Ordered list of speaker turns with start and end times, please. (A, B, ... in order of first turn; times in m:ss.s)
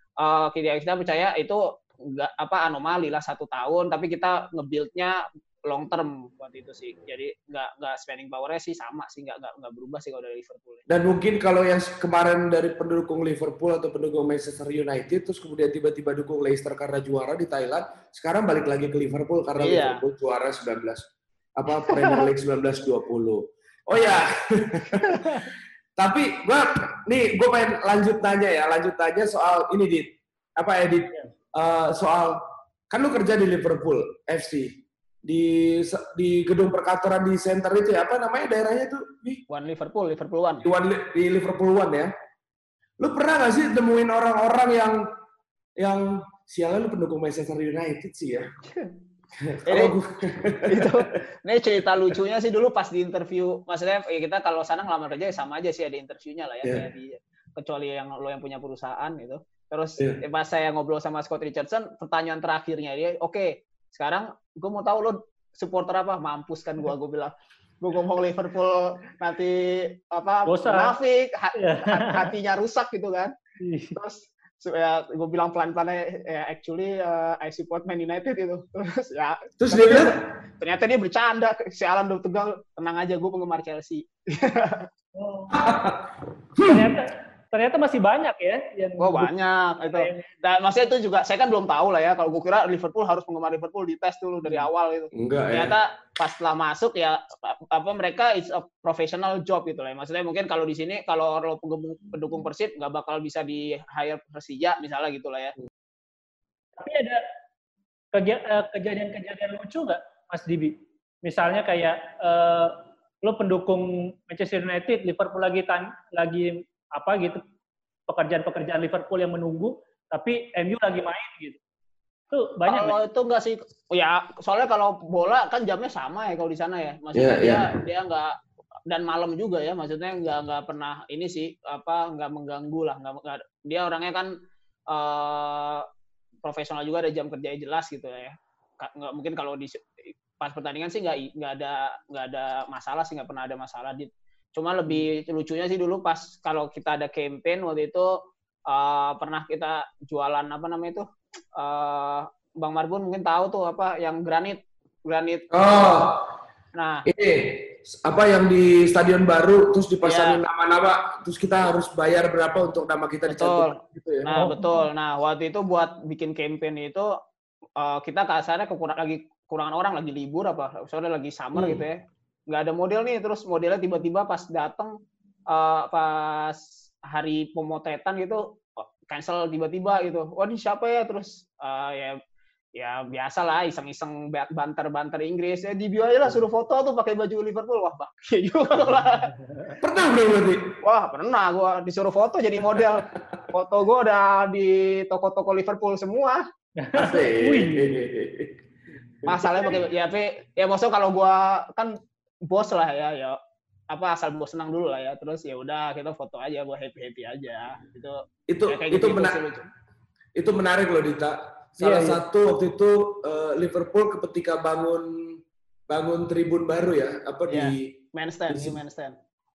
0:00.2-0:10.8 A
0:10.9-0:21.0 B
0:19.6-0:20.0 A
0:21.6-0:32.4 B
0:21.9-0:22.3 A
0:32.9-0:39.4 B
0:39.5-0:40.6 A
0:40.6-0:42.1 B
0:43.0-0:45.0 B
0:45.8-0:48.5 B
0:49.4-0:51.0 B
0:49.7-0:50.0 A
0:50.7-1:13.3 A
1:10.4-1:10.9 C
1:11.5-1:12.3 C
1:13.6-1:14.0 C
1:13.9-1:24.9 A
1:19.6-1:20.2 B
1:25.2-1:25.7 C
1:25.5-1:26.0 B
1:26.6-1:26.9 B
1:26.6-1:29.3 C
1:29.0-1:45.5 A
1:29.8-1:30.3 C
1:35.1-1:35.7 B
1:46.8-1:47.2 C
1:48.1-1:57.4 C
1:58.1-2:01.6 C
2:02.3-2:03.0 C
2:02.6-2:08.4 A
2:07.1-2:07.7 B
2:08.9-2:14.3 A
2:14.9-2:15.8 A
2:16.4-2:31.0 A
2:31.6-2:36.0 A
2:35.5-2:36.3 B
2:36.7-2:37.0 A
2:37.0-2:44.3 B
2:40.0-2:40.4 A
2:43.3-2:47.1 A
2:44.3-2:44.8 C
2:47.8-2:54.9 A
2:51.5-2:51.8 B
2:55.5-3:02.2 A
3:02.7-3:09.3 A
3:09.8-3:10.7 B
3:10.8-3:16.4 A
3:16.8-3:18.0 C
3:16.9-3:18.6 B
3:19.2-3:21.9 A
3:22.5-3:23.4 A
3:23.9-3:29.7 A
3:28.5-3:29.4 B
3:30.4-3:35.4 B
3:31.8-3:32.2 C
3:35.9-3:37.9 B
3:37.5-3:39.2 A
3:38.5-3:38.8 B